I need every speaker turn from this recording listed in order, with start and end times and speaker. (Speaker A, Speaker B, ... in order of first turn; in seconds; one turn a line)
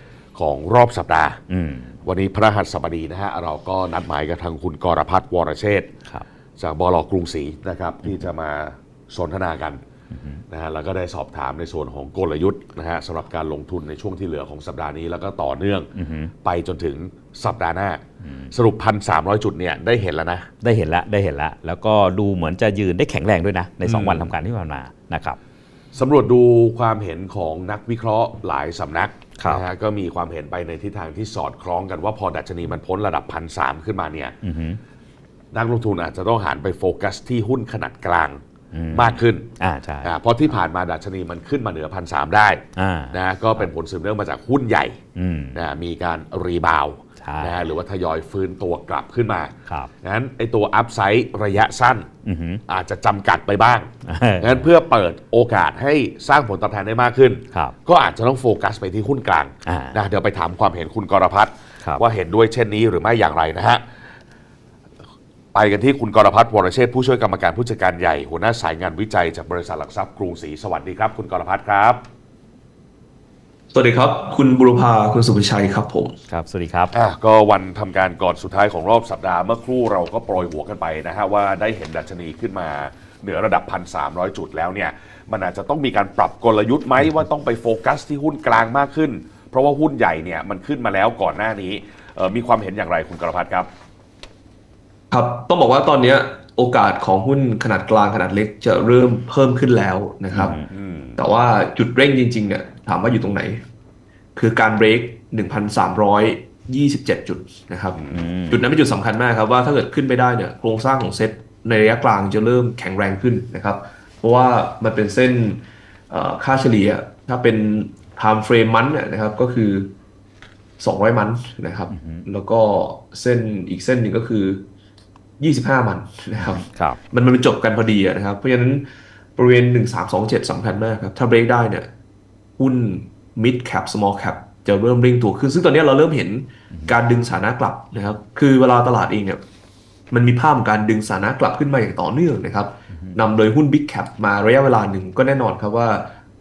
Speaker A: 0.3-1.4
Speaker B: 1.5-2.0
Speaker A: 2.0-5.9
Speaker A: 6.6-9.8
Speaker B: 10.1-10.4
Speaker A: 10.5-15.9
Speaker B: 15.9-16.3
Speaker A: 16.4-20.5
Speaker B: 18.2-18.5
Speaker B: 20.6-25.4
Speaker A: 23.8-24.3
Speaker A: 25.9-34.4
Speaker B: 29.4-29.6
Speaker B: 34.4-34.8
Speaker A: 35.5-39.5
Speaker B: 38.7-40.2
Speaker A: 40.0-45.0
Speaker B: 42.8-43.7
Speaker B: 45.1-45.6
Speaker A: 45.5-52.1
Speaker B: 47.2-47.6
Speaker B: 52.2-52.6
Speaker A: 52.7-63.8
Speaker B: 54.0-54.7
Speaker B: 59.6-60.0
Speaker A: 65.5-72.0
Speaker C: 73.7-76.2
Speaker B: 76.3-76.9
Speaker A: 76.9-93.7
Speaker C: 95.1-100.6
Speaker B: 100.3-100.7
Speaker A: 100.7-101.2
Speaker C: 101.2-103.6
Speaker C: 104.4-119.9
Speaker A: 107.9-108.2
Speaker B: 108.1-108.6
Speaker C: 120.8-124.7
Speaker B: 121.9-122.3
Speaker C: 125.4-131.9
Speaker B: 126.4-127.0
Speaker C: 132.6-139.4
Speaker C: 140.1-146.1
Speaker B: 142.9-143.2